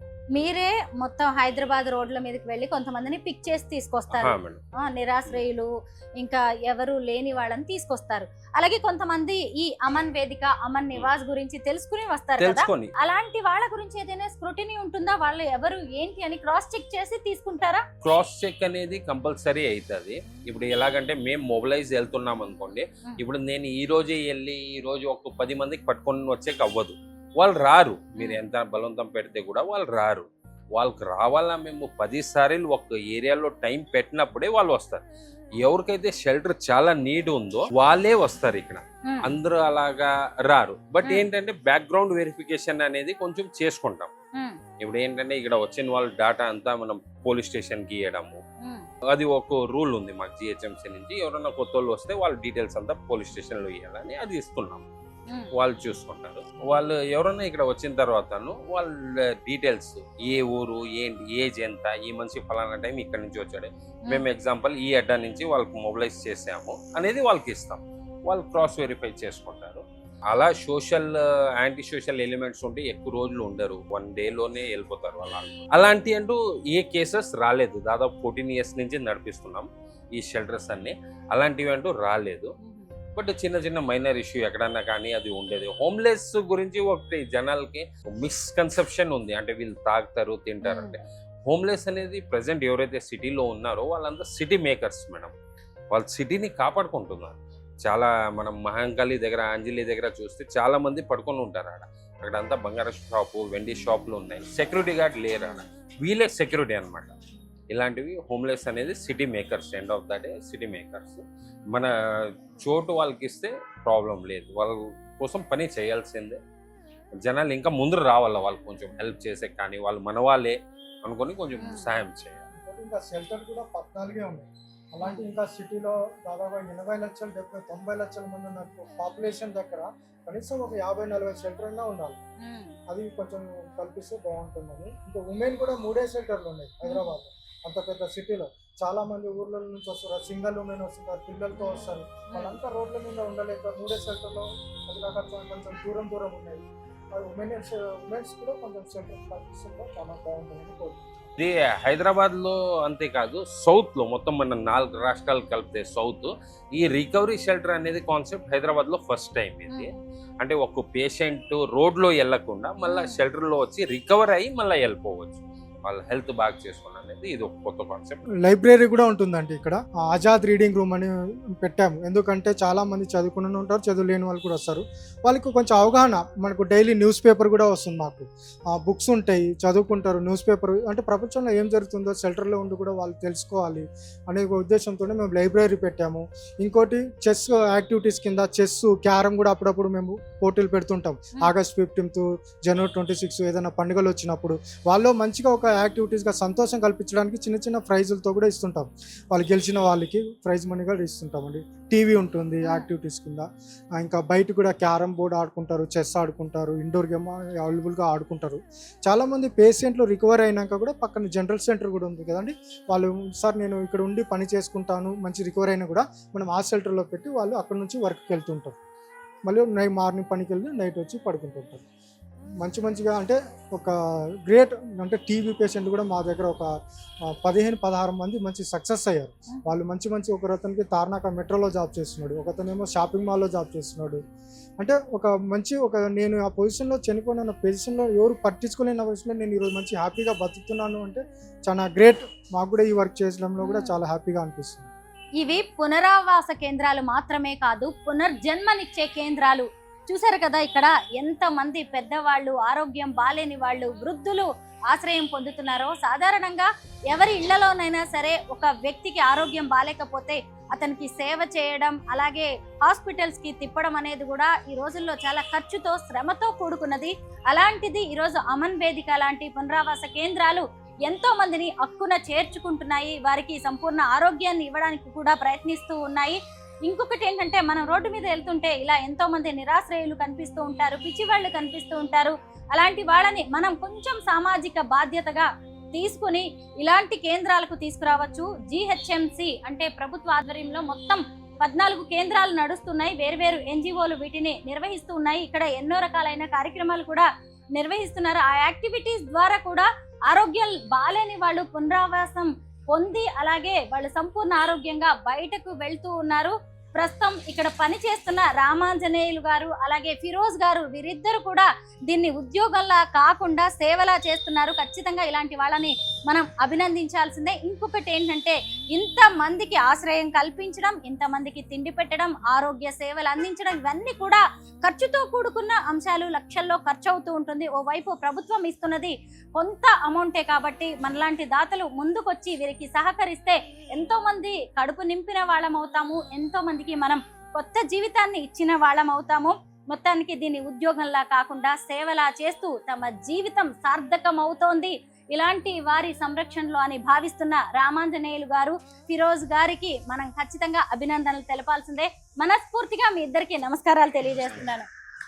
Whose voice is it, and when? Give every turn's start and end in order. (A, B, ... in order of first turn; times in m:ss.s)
0:00.3-0:05.7 A
0:04.1-0:04.6 B
0:06.2-0:17.8 A
0:12.4-0:12.9 B
0:18.0-0:35.1 B
0:28.2-0:28.4 A
0:35.6-0:44.1 B
0:39.0-0:39.3 A
0:44.8-0:48.4 B
0:49.1-0:54.9 B
0:55.6-1:22.5 B
1:22.6-1:22.9 A
1:23.2-1:35.3 B
1:30.6-1:31.0 A
1:35.9-1:47.2 B
1:47.7-1:56.4 B
1:57.2-2:02.5 B
2:01.6-2:01.9 A
2:02.5-2:12.2 C
2:05.0-2:05.3 A
2:12.4-2:12.8 A
2:12.9-2:31.0 C
2:16.9-2:17.1 A
2:21.6-2:22.6 A
2:31.4-2:48.2 B
2:39.7-2:40.0 A
2:42.9-2:43.2 A
2:48.4-3:23.5 C
3:24.0-3:38.8 C
3:39.5-3:41.8 C
3:42.6-3:44.0 C
3:44.5-3:46.7 C
3:47.4-3:54.2 C
3:54.8-4:04.9 C
4:03.6-4:04.0 A
4:05.4-5:54.9 A